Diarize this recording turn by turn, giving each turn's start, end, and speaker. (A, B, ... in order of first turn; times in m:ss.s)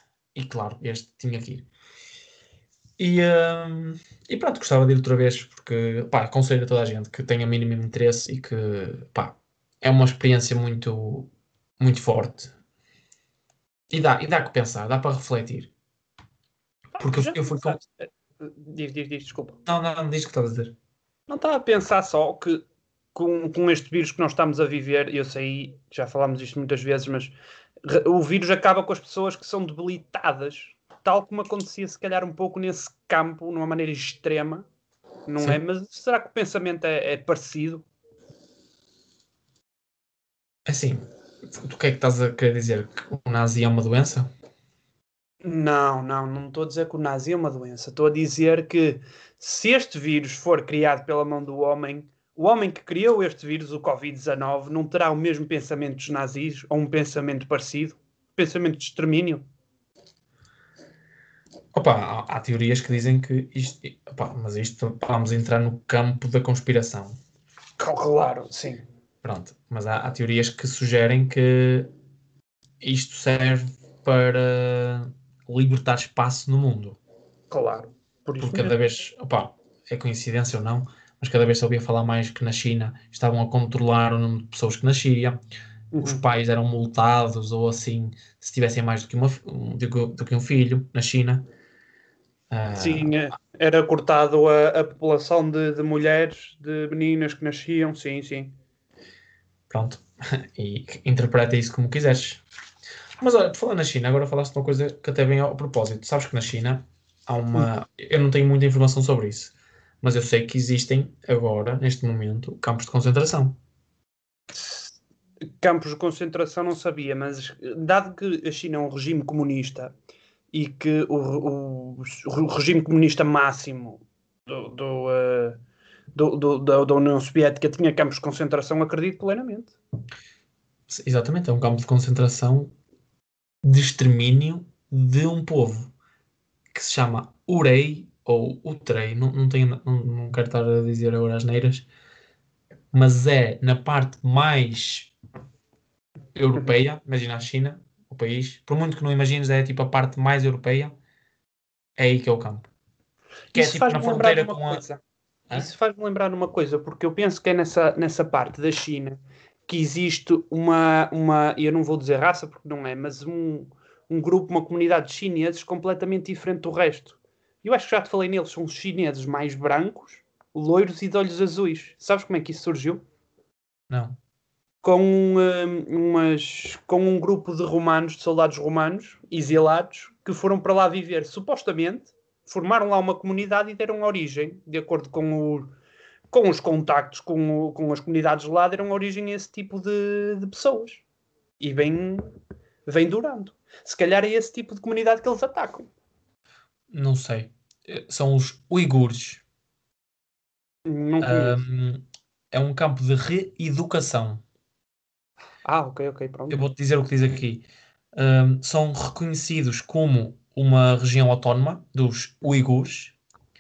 0:00.3-0:01.7 A
0:03.0-0:12.5 A
0:13.9-0:15.7 A
0:17.0-0:19.6 B
0:17.0-0:17.8 A
0:19.6-0:20.7 A
0:21.3-0:22.6 B
0:23.1-0:34.7 B
0:35.3-0:37.8 B
0:40.6-0:44.3 A
0:45.4-0:59.4 B
1:01.7-1:07.2 A
1:07.8-1:08.8 B
1:09.2-1:11.9 A
1:12.8-1:17.0 A
1:17.5-1:18.7 B
1:18.4-1:25.4 A
1:25.9-1:26.2 B
1:26.0-1:31.5 A
1:32.5-1:33.2 A
1:32.8-1:38.5 B
1:39.7-1:42.4 A
1:43.2-1:53.6 A
1:54.5-1:55.0 B
1:55.6-1:59.9 B
2:00.5-2:05.6 B
2:06.1-2:09.8 B
2:10.9-2:12.7 A
2:13.6-2:15.9 A
2:16.7-2:21.8 A
2:22.9-2:25.1 A
2:26.3-2:30.9 A
2:26.5-2:26.8 B
2:32.0-2:32.7 A
2:33.5-2:35.0 B
2:33.5-2:34.8 A
2:35.5-2:53.0 B
2:53.9-2:54.2 A
2:54.8-3:05.7 B
3:06.3-3:11.0 B
3:11.6-3:12.3 B
3:12.8-3:15.9 B
3:16.9-3:19.4 A
3:20.8-3:21.6 B
3:21.2-3:24.4 A
3:25.6-3:26.6 B
3:26.5-3:33.2 A